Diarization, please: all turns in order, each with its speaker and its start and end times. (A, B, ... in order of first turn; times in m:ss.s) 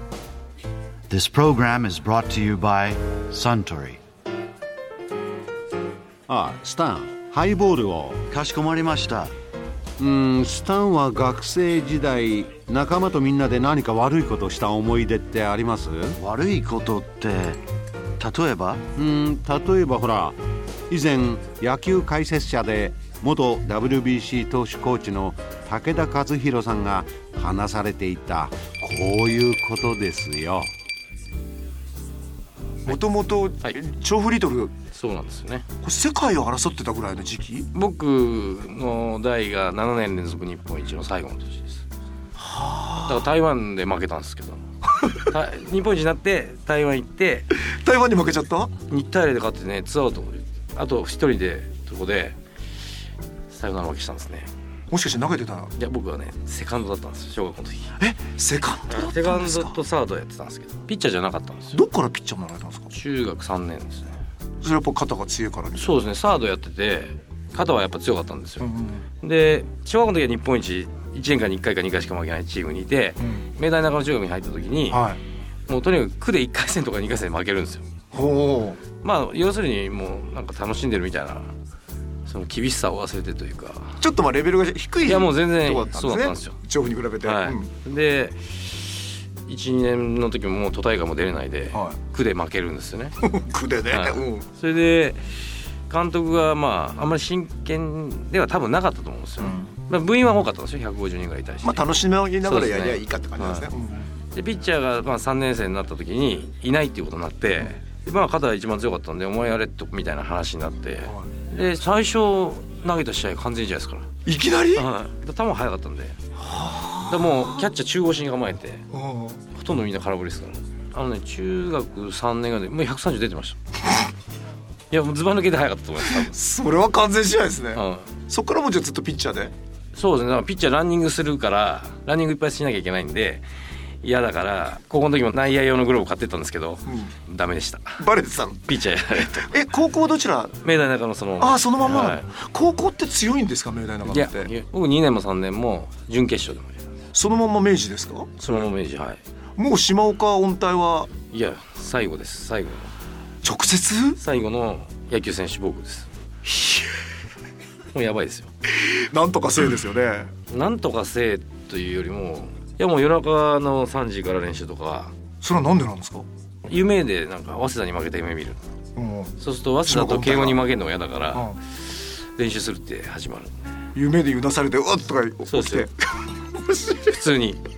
0:01.1-0:04.0 A
0:06.3-0:08.3 B
0:08.3-0:09.3 A
0:10.0-0:16.2 B
0:16.2-0:17.6 A
0:18.2-0:18.9 A
0:19.0-0:20.4 B
0:20.9-0:30.7 B
0:32.8-0:34.7 C
0:34.9-0:35.7 D
0:35.8-0:37.7 C
0:37.7-0:41.8 D
0:42.4-0:43.2 C
0:43.1-0:44.6 D
0:45.3-0:47.5 D
0:47.6-0:48.7 C
0:48.9-0:52.4 D
0:53.5-0:54.5 D
0:54.9-0:55.7 C
0:55.8-0:57.9 D
0:58.0-0:59.8 C
0:58.9-1:01.8 D
1:01.7-1:02.9 C
1:02.9-1:04.2 D
1:04.6-1:06.0 C
1:05.8-1:15.0 D
1:08.6-1:09.0 C
1:14.9-1:15.2 C
1:15.7-1:17.8 D
1:18.1-1:18.8 C
1:19.0-1:21.5 D
1:22.3-1:24.0 D
1:24.0-1:27.7 C
1:25.0-1:26.6 D
1:27.2-1:33.2 D
1:33.2-1:34.4 C
1:33.9-1:43.7 D
1:39.4-1:39.7 C
1:41.6-1:44.1 C
1:44.3-1:54.1 D
1:51.0-1:51.3 C
1:54.2-1:54.9 C
1:54.7-1:56.2 D
1:56.4-1:57.6 C
1:57.1-1:58.8 D
1:58.9-1:59.4 C
1:59.5-2:03.6 D
2:04.9-2:06.4 D
2:06.1-2:09.5 C
2:07.7-2:08.1 D
2:09.9-2:13.4 D
2:14.0-2:18.0 D
2:16.8-2:17.1 C
2:18.0-2:20.7 C
2:18.7-2:19.5 D
2:20.6-2:22.3 D
2:21.4-2:24.5 C
2:24.1-2:26.8 D
2:27.1-2:28.7 C
2:28.4-2:29.2 D
2:29.6-2:31.1 C
2:31.3-2:32.9 D
2:33.4-2:34.2 C
2:34.2-2:36.1 D
2:36.4-2:36.9 C
2:37.9-2:38.5 D
2:38.7-2:40.3 C
2:40.5-2:45.2 D
2:45.4-2:46.3 C
2:46.7-2:48.6 D
2:49.0-2:50.6 C
2:49.4-2:53.6 D
2:51.3-2:51.6 C
2:53.9-2:57.2 C
2:55.5-2:55.9 D
2:57.0-2:57.6 D